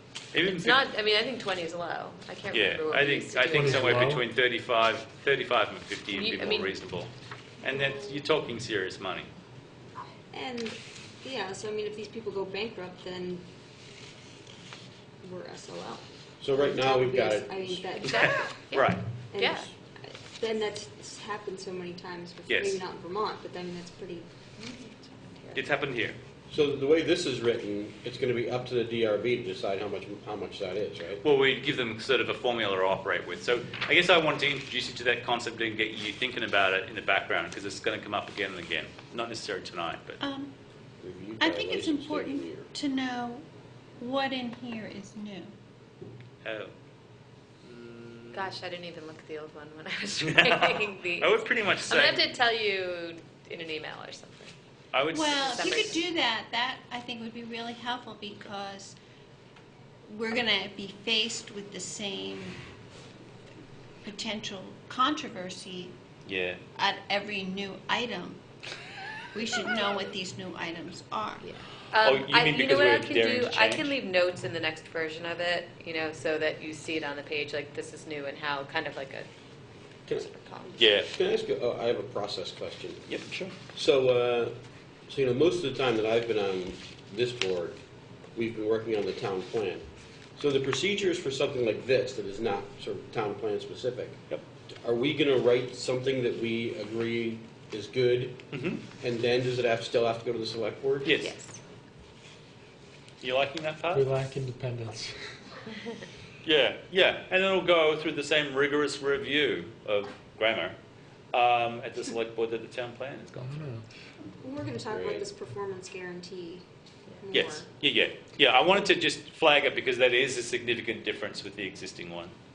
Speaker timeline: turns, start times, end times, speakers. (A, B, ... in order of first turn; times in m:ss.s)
0:00.3-0:00.8 A
0:00.4-0:04.0 B
0:02.5-0:09.3 A
0:03.5-0:04.2 C
0:06.1-0:06.8 B
0:10.3-0:13.4 D
0:15.2-0:18.5 D
0:16.4-0:18.0 E
0:18.0-0:19.7 B
0:18.0-0:19.0 A
0:19.3-0:24.2 D
0:22.5-0:22.8 A
0:24.6-0:25.6 B
0:25.5-0:26.2 A
0:26.5-0:31.2 E
0:31.2-0:40.2 A
0:40.2-0:40.5 F
0:41.0-0:42.7 E
0:41.4-0:43.4 F
0:44.0-0:45.5 F
0:46.4-0:46.7 A
0:47.6-0:48.5 A
0:48.3-0:54.5 B
0:50.2-0:52.3 A
0:54.9-0:55.8 A
0:55.2-0:58.9 F
0:55.4-0:56.0 B
1:00.1-1:02.6 F
1:04.0-1:05.9 F
1:06.2-1:06.6 A
1:06.8-1:08.4 F
1:09.3-1:11.4 F
1:09.7-1:10.0 B
1:11.4-1:19.3 B
1:12.0-1:13.9 A
1:20.1-1:20.9 B
1:20.8-1:21.1 A
1:21.0-1:23.1 E
1:23.1-1:23.5 A
1:23.7-1:24.6 E
1:25.1-1:27.8 E
1:28.3-1:29.8 E
1:30.4-1:34.2 E
1:34.7-1:38.4 E
1:38.5-1:38.8 A
1:39.0-1:41.2 E
1:41.0-1:41.3 A
1:41.2-1:41.6 B
1:43.2-1:44.1 A
1:43.9-1:45.1 C
1:46.4-1:50.7 A
1:51.3-1:53.6 A
1:53.4-1:53.8 C
1:54.4-1:57.7 D
1:54.8-1:55.3 E
1:57.3-2:02.3 A